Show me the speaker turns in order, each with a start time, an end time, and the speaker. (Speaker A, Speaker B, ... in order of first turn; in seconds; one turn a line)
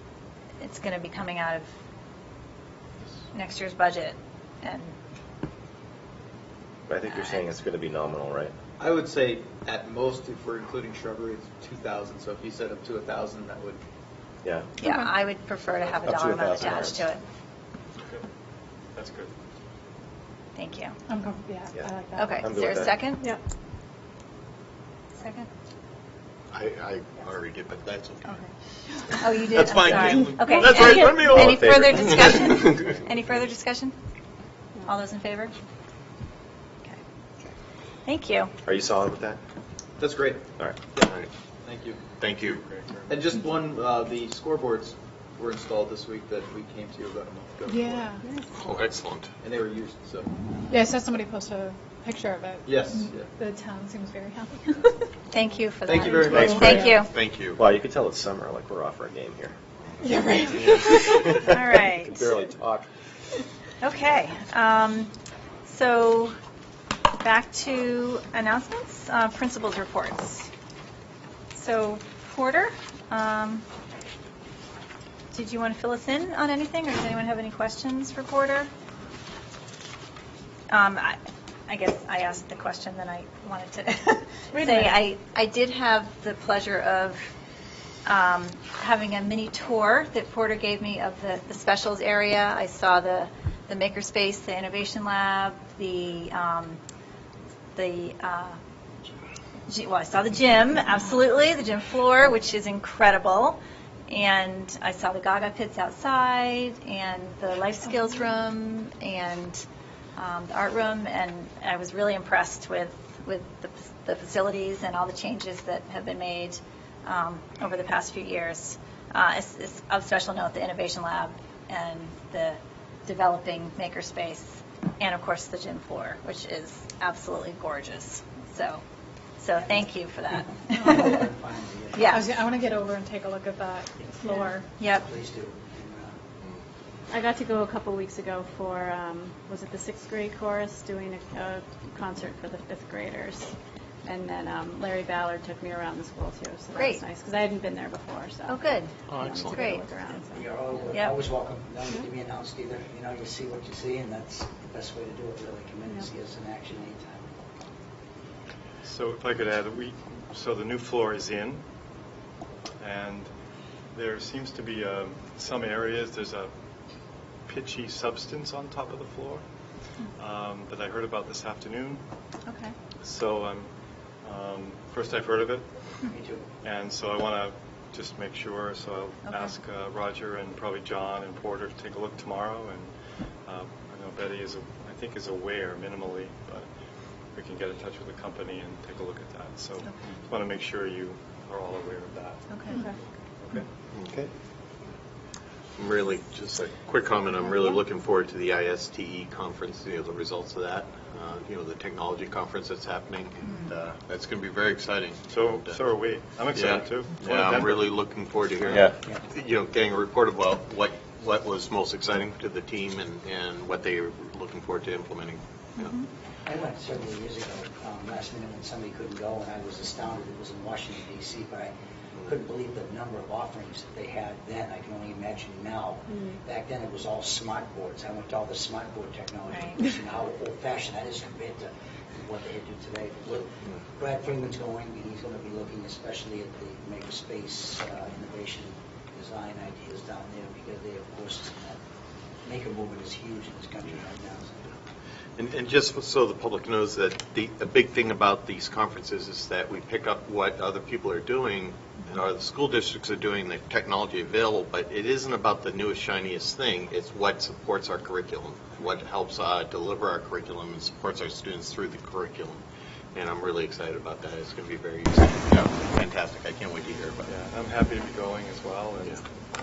Speaker A: 0.6-1.7
Speaker A: 3.3-5.0
Speaker B: 6.9-8.5
Speaker A: 7.1-7.4
Speaker C: 8.8-13.8
Speaker B: 14.4-14.7
Speaker A: 14.8-17.2
Speaker B: 16.1-17.1
Speaker D: 18.0-18.2
Speaker D: 18.9-19.3
Speaker A: 20.6-21.0
Speaker E: 21.1-22.4
Speaker B: 21.7-23.1
Speaker A: 22.2-23.3
Speaker A: 25.2-25.5
Speaker F: 26.5-28.4
Speaker A: 29.2-33.9
Speaker F: 29.2-32.9
Speaker B: 30.9-32.5
Speaker A: 34.9-35.5
Speaker A: 38.1-38.5
Speaker B: 38.6-39.4
Speaker C: 40.0-42.0
Speaker F: 41.0-41.3
Speaker F: 42.2-42.6
Speaker D: 42.6-43.1
Speaker C: 43.1-48.1
Speaker E: 47.7-48.3
Speaker F: 48.5-49.3
Speaker C: 49.4-50.3
Speaker E: 50.7-54.8
Speaker C: 52.6-53.3
Speaker A: 55.3-57.1
Speaker C: 55.9-56.9
Speaker B: 56.2-56.9
Speaker E: 56.5-56.8
Speaker F: 56.8-57.6
Speaker B: 57.6-59.5
Speaker E: 60.0-61.3
Speaker B: 60.6-62.9
Speaker A: 61.5-62.3
Speaker A: 63.8-65.1
Speaker A: 65.7-66.3
Speaker A: 67.2-70.5
Speaker A: 71.5-73.7
Speaker A: 75.3-78.7
Speaker A: 80.7-87.3
Speaker A: 88.1-96.8
Speaker A: 97.8-98.6
Speaker A: 99.7-109.6
Speaker A: 110.2-128.8
Speaker A: 129.4-131.2
Speaker G: 130.7-132.2
Speaker A: 131.9-132.2
Speaker E: 132.1-134.7
Speaker H: 134.2-134.5
Speaker A: 134.7-135.1
Speaker G: 134.9-136.2
Speaker H: 137.1-143.5
Speaker H: 144.1-151.0
Speaker A: 146.7-147.0
Speaker A: 148.5-148.9
Speaker F: 149.1-149.6
Speaker A: 149.4-149.9
Speaker G: 150.3-157.3
Speaker A: 150.9-151.2
Speaker D: 158.8-161.6
Speaker D: 162.8-163.3
Speaker D: 163.9-166.5
Speaker D: 167.5-169.4
Speaker D: 170.2-172.0
Speaker A: 172.5-172.8
Speaker D: 173.0-173.7
Speaker D: 174.2-175.7
Speaker G: 176.1-176.5
Speaker D: 176.6-182.9
Speaker A: 179.3-179.5
Speaker D: 183.5-186.7
Speaker D: 187.3-192.8
Speaker A: 189.8-190.2
Speaker A: 192.5-192.8
Speaker F: 195.8-205.8
Speaker D: 205.3-207.9
Speaker F: 206.5-215.9
Speaker A: 215.8-216.1
Speaker G: 216.4-221.7
Speaker G: 222.2-241.8
Speaker A: 229.5-229.8
Speaker G: 242.4-244.7
Speaker F: 245.4-262.6
Speaker F: 263.1-267.3
Speaker D: 267.3-269.2